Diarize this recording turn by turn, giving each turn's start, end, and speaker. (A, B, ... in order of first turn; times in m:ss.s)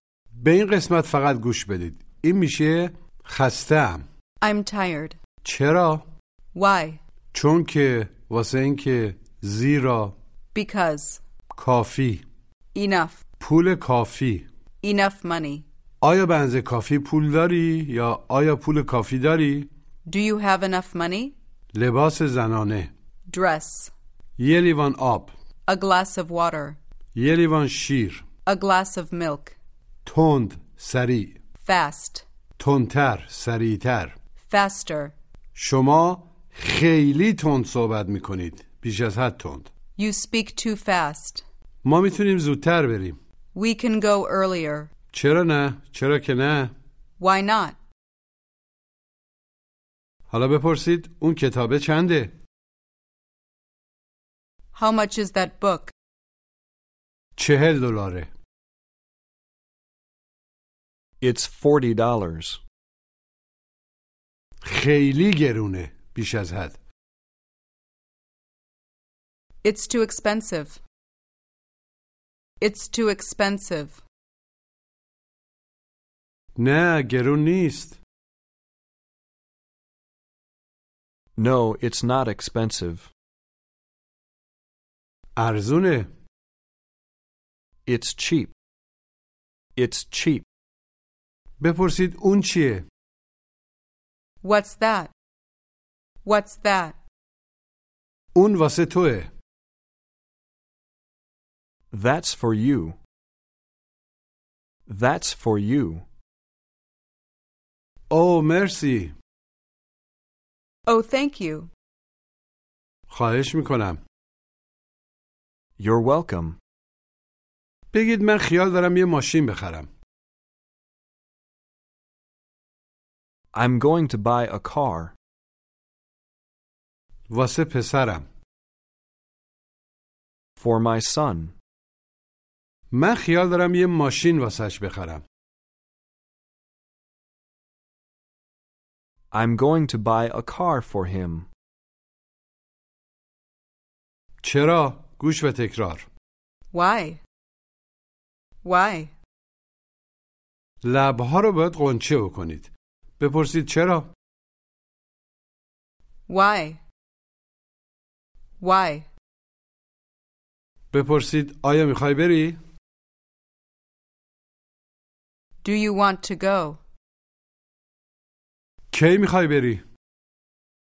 0:00.4-0:04.0 A
0:04.4-0:05.2 B
0:05.4-0:06.0 A
0:06.6-0:07.0 B
0:07.3-0:10.1 A
0:10.6-0:11.2 B
0:11.6-0:12.2 A
0:12.8-0:13.2 B
0:13.4-0:14.5 A
0:14.8-0:15.6 B
0:16.0-0:19.7 A
0:20.1-0:21.4 B
0:21.7-0:22.9 A
0:23.3-0:23.9 B
0:24.4-0:25.3 A
0:25.7-0:26.8 B
0:27.2-0:28.2 A
0:28.5-0:29.6 B
0:30.1-0:31.4 A
0:31.6-0:32.2 B
0:32.6-0:34.2 A
0:34.4-0:35.1 B
0:35.6-0:39.7 A
0:40.0-0:41.4 B
0:41.8-0:43.2 A
0:43.6-0:44.9 B
0:45.1-0:46.7 A
0:47.2-0:47.8 B
0:50.3-0:52.3 A
0:54.8-0:55.9 B
0:57.4-0:58.3 A
1:01.2-1:02.6 C
1:04.6-1:06.8 A
1:09.6-1:10.8 B
1:12.6-1:14.0 B
1:16.6-1:18.0 A
1:21.4-1:23.1 C
1:25.4-1:26.1 A
1:27.9-1:28.5 C
1:29.8-1:30.5 C
1:31.6-1:32.8 A
1:34.4-1:35.1 B
1:36.2-1:37.0 B
1:38.4-1:39.3 A
1:41.9-1:43.0 C
1:44.9-1:46.0 C
1:48.1-1:49.1 A
1:50.9-1:51.7 B
1:53.1-1:54.0 A
1:55.8-1:56.6 C
1:57.9-1:59.9 A
2:03.5-2:05.2 C
2:07.3-2:08.2 A
2:10.6-2:11.6 C
2:12.9-2:15.2 A
2:19.3-2:21.5 C
2:24.4-2:26.1 A
2:26.7-2:27.2 B
2:28.6-2:29.1 B
2:30.8-2:34.1 A
2:36.3-2:36.8 B
2:38.6-2:39.1 B
2:40.9-2:42.6 A
2:45.6-2:46.8 B
2:48.9-2:49.8 A